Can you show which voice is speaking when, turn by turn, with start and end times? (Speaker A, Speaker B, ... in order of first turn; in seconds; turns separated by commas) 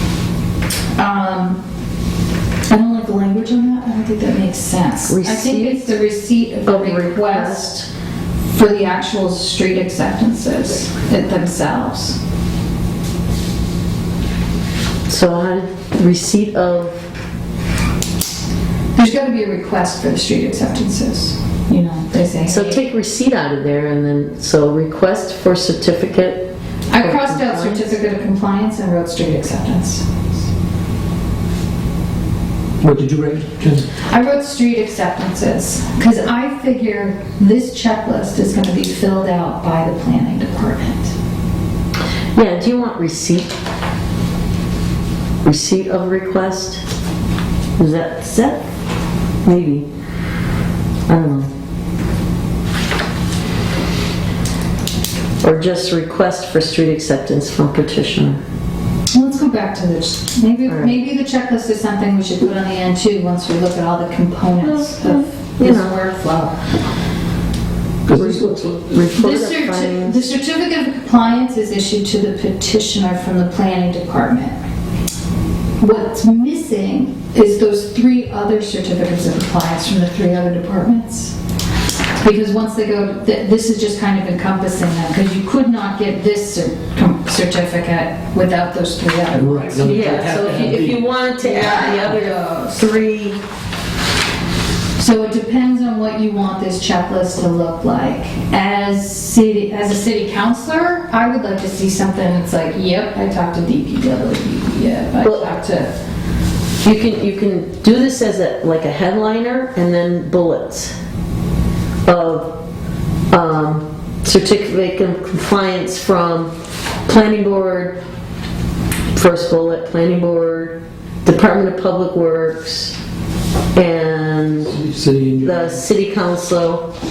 Speaker A: 1.0-1.6, Speaker A: 2.7-7.8, Speaker B: 5.1-6.0, Speaker B: 6.7-7.9, Speaker A: 8.5-12.2, Speaker B: 15.1-17.1, Speaker A: 19.0-22.8, Speaker B: 22.5-28.0, Speaker A: 26.9-30.1, Speaker C: 32.8-33.9, Speaker A: 34.1-41.1, Speaker B: 42.4-43.5, Speaker B: 45.4-46.8, Speaker B: 47.8-48.6, Speaker B: 49.5-49.9, Speaker B: 51.1-51.5, Speaker B: 55.4-58.4, Speaker A: 59.1-66.5, Speaker B: 60.7-60.9, Speaker B: 64.6-65.9, Speaker C: 68.1-69.1, Speaker B: 68.1-70.2, Speaker A: 69.2-74.5, Speaker A: 75.8-81.3, Speaker A: 82.2-90.6, Speaker C: 89.3-91.1, Speaker B: 89.9-93.4, Speaker A: 91.4-92.9, Speaker A: 95.0-105.9, Speaker B: 106.8-111.0, Speaker B: 112.0-112.5, Speaker B: 113.3-116.5, Speaker B: 117.1-118.0, Speaker B: 119.1-123.0, Speaker B: 123.8-124.8, Speaker C: 124.7-125.8, Speaker B: 125.4-126.9